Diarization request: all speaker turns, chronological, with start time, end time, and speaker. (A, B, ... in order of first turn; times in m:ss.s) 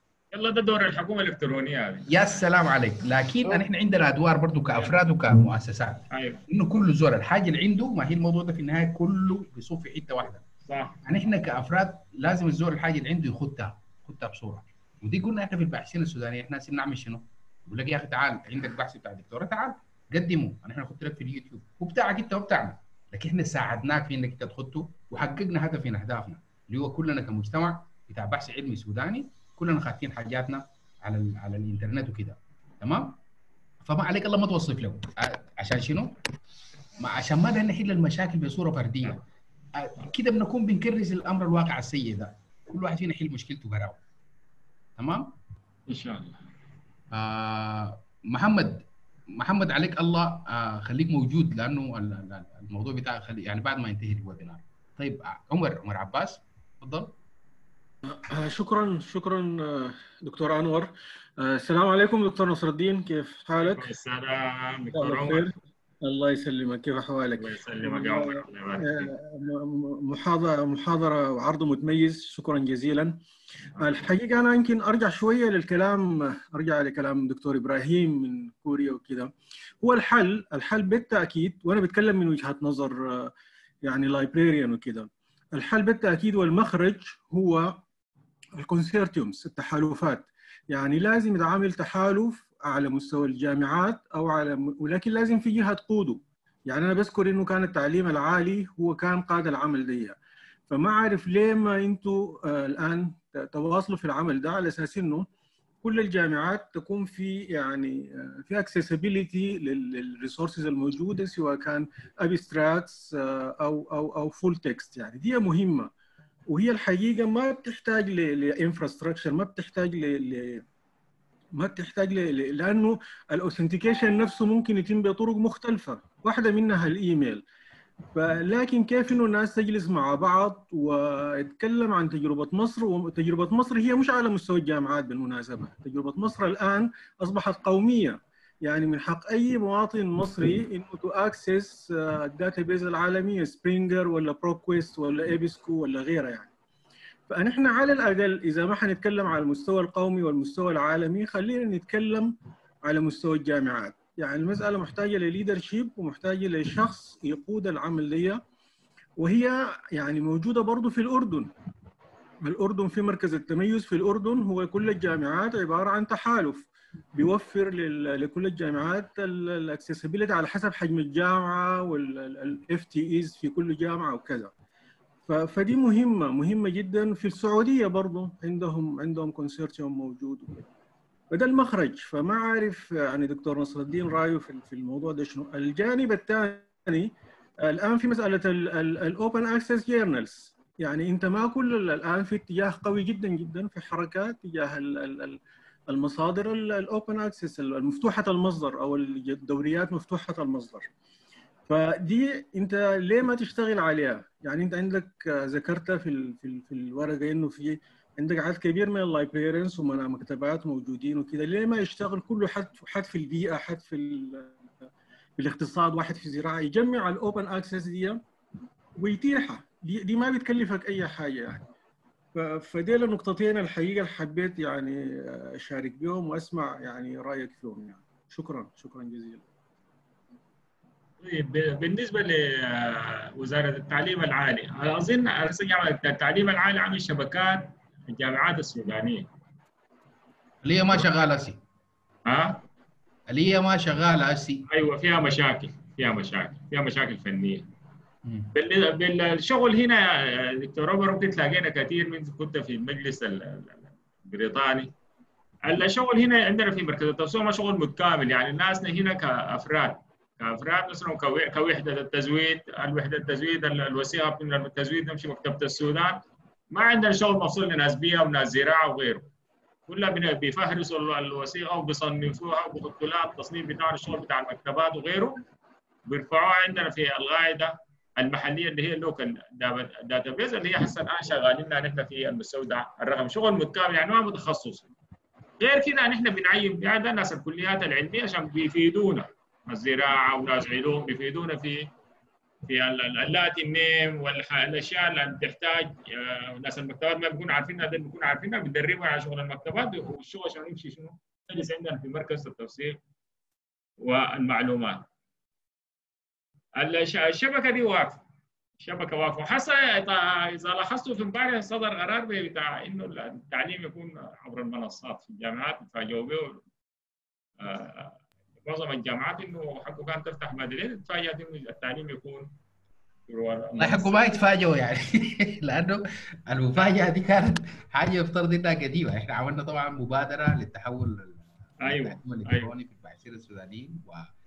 0:00.3-0:02.1 A
0:02.1-0:10.4 B
0:06.1-0:06.4 A
0:10.7-0:11.0 A
0:11.0-0:33.2 B
0:33.8-0:36.1 B
0:37.0-0:39.2 B
0:39.8-0:44.0 B
0:45.0-0:45.3 B
0:45.9-0:46.4 A
0:47.1-0:57.1 B
0:58.1-1:03.9 C
1:03.6-1:05.5 A
1:04.9-1:05.6 C
1:06.1-1:13.2 C
1:07.4-1:09.1 A
1:13.8-1:23.3 C
1:23.8-1:27.8 C
1:28.6-1:40.2 C
1:40.7-1:45.3 C
1:45.8-1:55.9 C
1:56.5-2:00.6 C
2:01.6-2:07.4 C
2:08.1-2:26.5 C
2:27.3-2:32.4 C
2:32.9-2:38.4 C
2:39.2-2:41.5 C
2:42.4-2:54.5 C
2:55.3-3:00.6 C
3:01.3-3:07.1 C
3:07.7-3:15.4 C
3:15.9-3:20.9 C
3:21.7-3:34.6 C
3:35.4-3:38.2 C
3:39.0-3:41.7 C
3:42.4-3:49.4 C
3:51.2-3:59.3 A
4:00.6-4:01.6 B
4:02.3-4:02.6 A
4:03.3-4:04.6 B
4:04.7-4:07.7 A
4:08.5-4:14.9 A
4:15.6-4:26.2 A
4:26.7-4:29.3 A
4:29.9-4:35.4 A
4:36.1-4:44.9 A
4:45.6-4:51.9 A
4:52.7-5:03.0 A
5:04.0-5:05.0 A
5:06.8-5:08.2 A
5:08.8-5:16.6 A
5:17.6-5:22.5 A
5:23.3-5:24.2 A
5:23.8-5:34.3 B
5:31.8-5:32.7 A